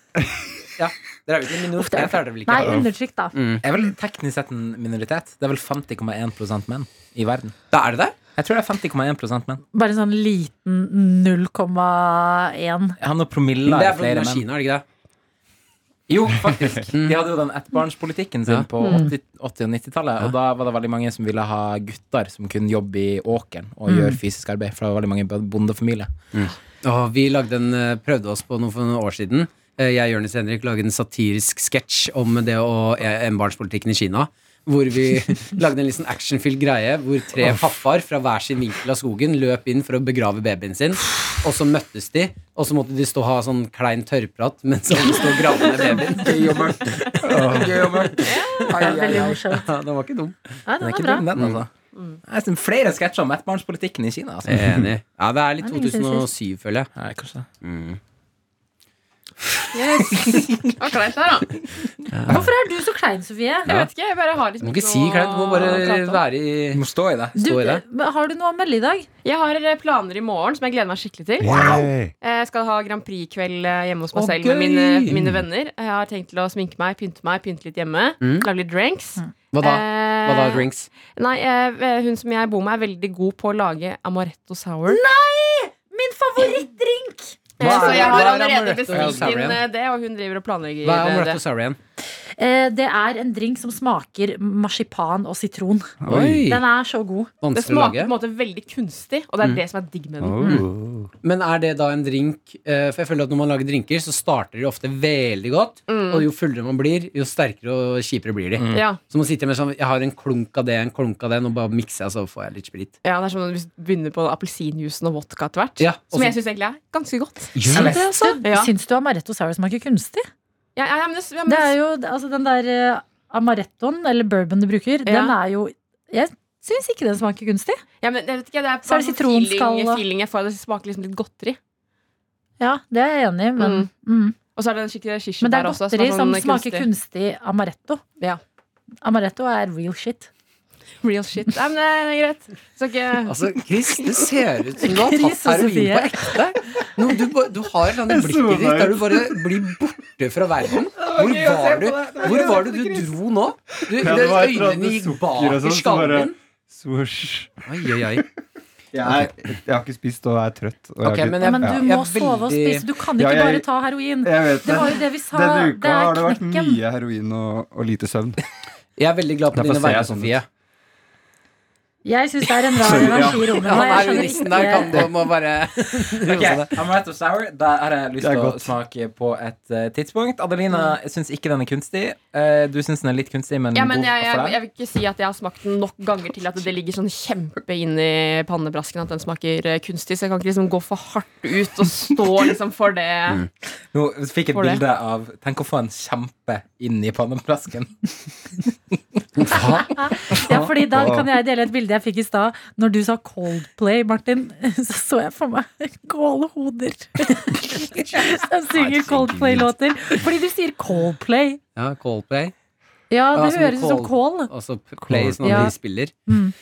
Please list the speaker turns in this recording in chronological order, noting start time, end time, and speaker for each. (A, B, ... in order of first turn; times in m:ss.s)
0:00.8-0:03.6 A
0:01.8-0:03.3 B
0:02.6-0:02.9 C
0:03.6-0:07.6 D
0:07.7-0:08.1 A
0:08.4-0:09.6 D
0:09.7-0:13.0 B
0:13.0-0:14.4 D
0:13.6-0:14.8 A
0:16.1-0:26.1 D
0:16.9-0:17.2 A
0:18.8-0:19.1 B
0:23.8-0:24.2 B
0:26.3-0:46.5 A
0:37.4-0:37.7 C
0:46.1-0:49.4 D
0:47.2-0:47.8 C
0:47.4-0:48.0 A
0:48.2-0:48.7 E
0:48.7-0:49.7 B
0:48.7-0:50.4 A
0:50.6-0:51.2 B
0:50.8-0:51.7 D
0:51.3-0:51.6 A
0:52.2-0:54.6 D
0:54.5-0:56.9 A
0:54.5-0:54.9 C
0:55.6-0:56.3 B
0:57.0-0:57.4 D
0:57.6-0:58.0 A
0:59.7-1:00.2 E
0:59.9-1:00.9 D
1:00.8-1:01.6 E
1:02.1-1:02.4 A
1:02.3-1:03.7 B
1:03.7-1:06.0 E
1:04.6-1:06.8 A
1:05.6-1:06.2 B
1:06.7-1:07.4 D
1:07.4-1:09.1 B
1:07.4-1:07.8 A
1:09.2-1:25.0 E
1:11.4-1:12.1 C
1:14.1-1:15.4 A
1:18.2-1:18.5 A
1:19.5-1:20.9 A
1:24.9-1:27.4 B
1:27.6-1:31.4 E
1:27.6-1:29.6 A
1:28.9-1:29.3 D
1:30.8-1:31.8 A
1:32.4-1:37.3 B
1:36.0-1:36.5 C
1:36.1-1:36.6 A
1:37.4-1:38.1 A
1:37.5-1:40.6 E
1:40.2-1:41.1 C
1:41.2-1:52.9 A
1:45.9-1:46.3 E
1:48.6-1:48.8 D
1:48.7-1:49.0 E
1:53.0-1:58.7 E
1:55.8-1:56.4 A
1:57.5-1:58.0 A
1:57.7-1:58.2 D
1:57.7-2:00.3 B
2:00.8-2:01.7 E
2:01.4-2:07.8 B
2:05.0-2:05.4 E
2:08.0-2:11.6 E
2:08.8-2:10.0 B
2:12.6-2:14.4 B
2:13.6-2:13.9 E
2:14.5-2:16.9 E
2:15.4-2:18.0 B
2:19.0-2:20.3 B
2:21.0-2:23.4 E
2:23.2-2:36.4 A
2:24.8-2:26.4 B
2:28.0-2:29.7 C
2:31.0-2:33.1 D
2:33.9-2:38.2 C
2:37.7-2:38.2 A
2:38.9-2:41.9 C
2:41.0-2:42.8 A
2:41.4-2:46.8 B
2:43.2-2:43.7 C
2:44.2-2:48.4 C
2:49.0-2:50.5 A
2:49.5-2:50.4 C
2:52.0-2:55.0 B
2:52.8-2:54.1 C
2:52.9-2:56.8 A
2:56.3-3:04.6 D
2:58.2-2:58.7 C
3:03.7-3:13.5 E
3:13.9-3:18.1 D
3:14.5-3:14.8 E
3:19.4-3:20.7 A
3:19.9-3:31.6 B
3:20.9-3:21.3 C
3:28.7-3:29.7 C
3:31.8-3:32.5 A
3:33.1-3:34.5 B
3:33.3-3:36.1 A
3:35.1-3:35.7 C
3:35.4-3:35.7 B
3:36.3-3:36.5 B